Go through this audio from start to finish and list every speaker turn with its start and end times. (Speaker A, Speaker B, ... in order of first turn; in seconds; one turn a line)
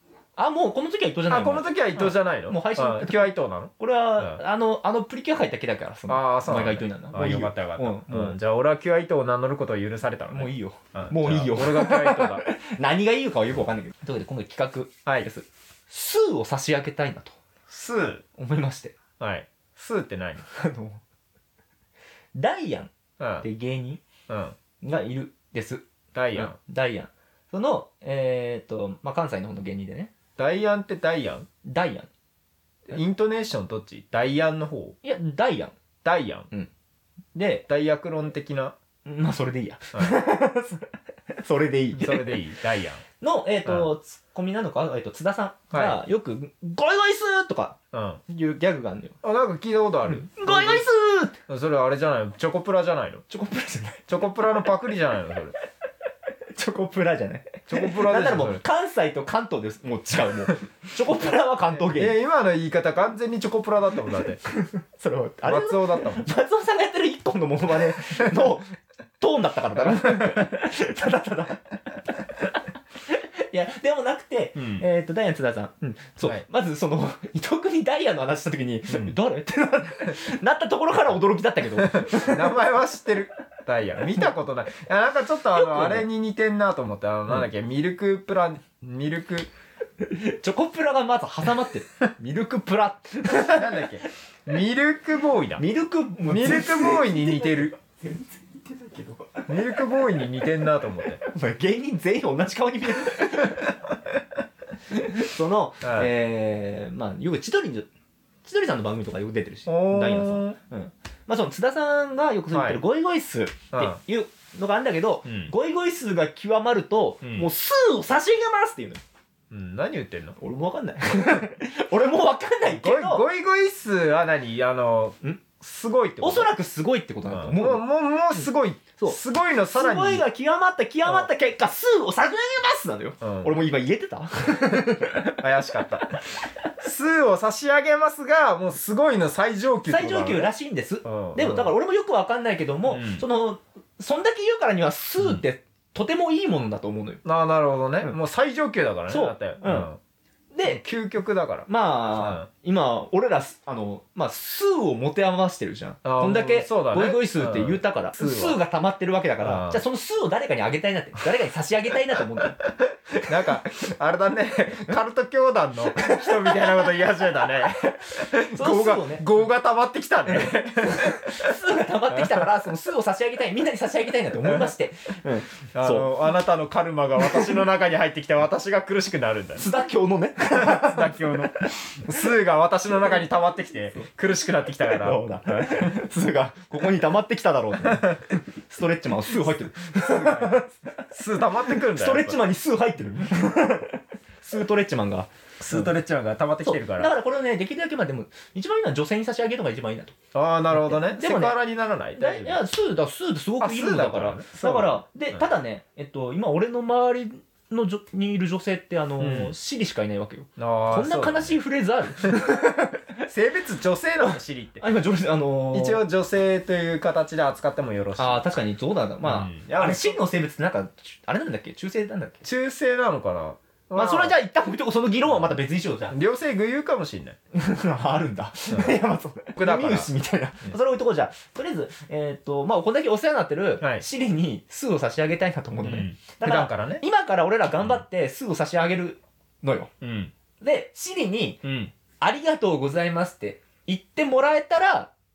Speaker A: 0.4-8.4
Speaker B: 1.3-4.4
Speaker B: 6.1-12.5
Speaker A: 10.3-17.4
Speaker B: 17.7-18.2
Speaker A: 18.4-18.9
Speaker B: 19.2-20.4
Speaker A: 20.4-21.0
Speaker A: 22.4-24.0
Speaker B: 23.2-23.5
Speaker B: 24.3-24.6
Speaker A: 24.8-25.8
Speaker B: 26.1-26.6
Speaker A: 26.4-30.1
Speaker B: 30.4-31.5
Speaker A: 31.6-32.1
Speaker B: 32.9-35.0
Speaker A: 35.0-35.7
Speaker B: 36.0-36.5
Speaker A: 37.4-37.6
Speaker B: 37.6-38.8
Speaker A: 39.0-42.5
Speaker B: 41.9-43.0
Speaker A: 43.2-49.2
Speaker B: 43.6-43.9
Speaker B: 45.7-46.0
Speaker B: 47.9-48.2
Speaker B: 49.2-50.9
Speaker A: 50.1-51.3
Speaker B: 51.5-53.2
Speaker A: 53.3-54.0
Speaker B: 54.1-55.5
Speaker A: 56.5-62.2
Speaker B: 57.7-58.6
Speaker B: 61.7-64.4
Speaker A: 64.5-72.5
Speaker B: 65.5-66.2
Speaker B: 69.8-70.4
Speaker A: 73.1-82.5
Speaker B: 74.6-74.8
Speaker B: 81.8-89.5
Speaker A: 85.6-86.1
Speaker A: 90.0-94.0
Speaker B: 93.5-95.6
Speaker A: 95.6-99.7
Speaker B: 96.3-97.7
Speaker B: 99.5-101.2
Speaker A: 101.2-104.2
Speaker A: 104.9-107.9
Speaker B: 105.8-106.1
Speaker A: 108.4-119.0
Speaker B: 109.7-110.6
Speaker B: 112.5-112.8
Speaker B: 113.7-114.0
Speaker B: 115.3-115.5
Speaker B: 117.2-117.5
Speaker B: 119.5-120.4
Speaker A: 120.4-123.3
Speaker B: 122.7-126.5
Speaker A: 126.2-129.2
Speaker B: 127.3-130.2
Speaker A: 129.7-135.4
Speaker B: 133.2-133.6
Speaker B: 135.4-136.2
Speaker B: 136.8-140.5
Speaker A: 139.9-147.2
Speaker B: 141.0-141.7
Speaker B: 142.9-143.3
Speaker B: 147.2-150.0
Speaker A: 149.1-149.9
Speaker A: 150.5-150.8
Speaker B: 150.7-152.5
Speaker A: 151.7-162.7
Speaker B: 156.1-158.6
Speaker B: 159.4-159.8
Speaker B: 163.2-171.6
Speaker A: 166.0-169.3
Speaker A: 170.3-176.1
Speaker B: 172.1-172.5
Speaker B: 174.4-174.7
Speaker B: 175.7-179.7
Speaker A: 179.6-181.7
Speaker B: 180.5-185.9
Speaker A: 184.9-191.0
Speaker B: 187.8-188.3
Speaker B: 190.1-192.4
Speaker A: 191.6-195.9
Speaker B: 195.6-197.1
Speaker A: 196.6-200.2
Speaker B: 200.3-202.6
Speaker A: 200.7-201.6
Speaker A: 202.2-213.1
Speaker B: 203.6-205.5
Speaker B: 209.2-209.6
Speaker B: 210.6-211.6
Speaker B: 213.3-214.8
Speaker A: 214.8-216.0
Speaker B: 215.7-218.4
Speaker A: 218.2-222.4
Speaker B: 219.2-220.2
Speaker B: 222.4-224.4
Speaker A: 223.9-226.2
Speaker B: 226.1-227.4
Speaker A: 227.5-239.9
Speaker B: 228.7-229.0
Speaker B: 229.6-230.1
Speaker B: 235.8-237.0
Speaker B: 240.0-240.3
Speaker A: 240.6-241.7
Speaker B: 241.6-241.9
Speaker A: 242.2-245.1